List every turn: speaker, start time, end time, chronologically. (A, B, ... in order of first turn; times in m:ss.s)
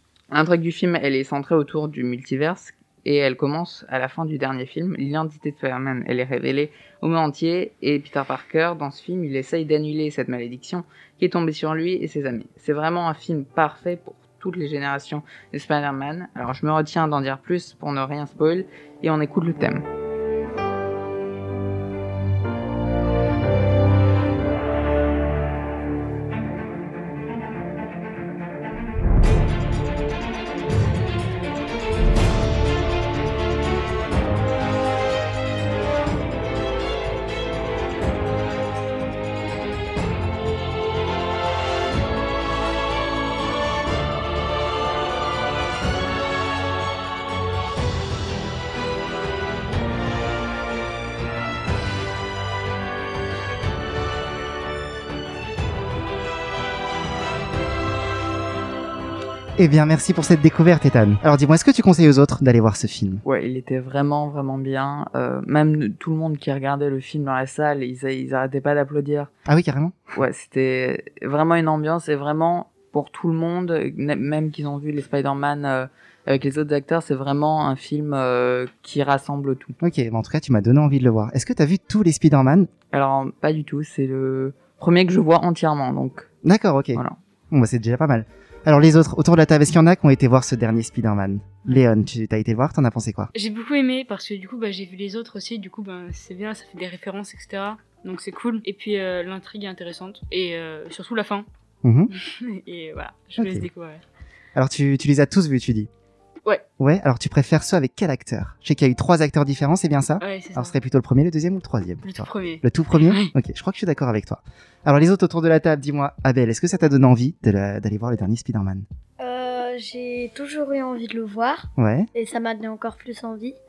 0:00.3-0:19.8 A
0:59.6-1:03.2 B
1:03.2-1:09.3 A
1:09.5-1:10.0 B
1:10.1-1:19.8 A
1:19.8-1:22.7 B
1:22.9-1:26.3 A
1:26.4-1:33.3 B
1:33.3-1:41.4 C
1:41.8-1:42.1 B
1:42.1-1:44.0 C
1:43.4-1:43.7 B
1:44.5-1:45.9 B
1:46.8-1:58.9 B
1:50.2-1:50.8 C
1:52.0-1:53.3 C
1:59.2-2:03.6 D
2:01.8-2:02.1 B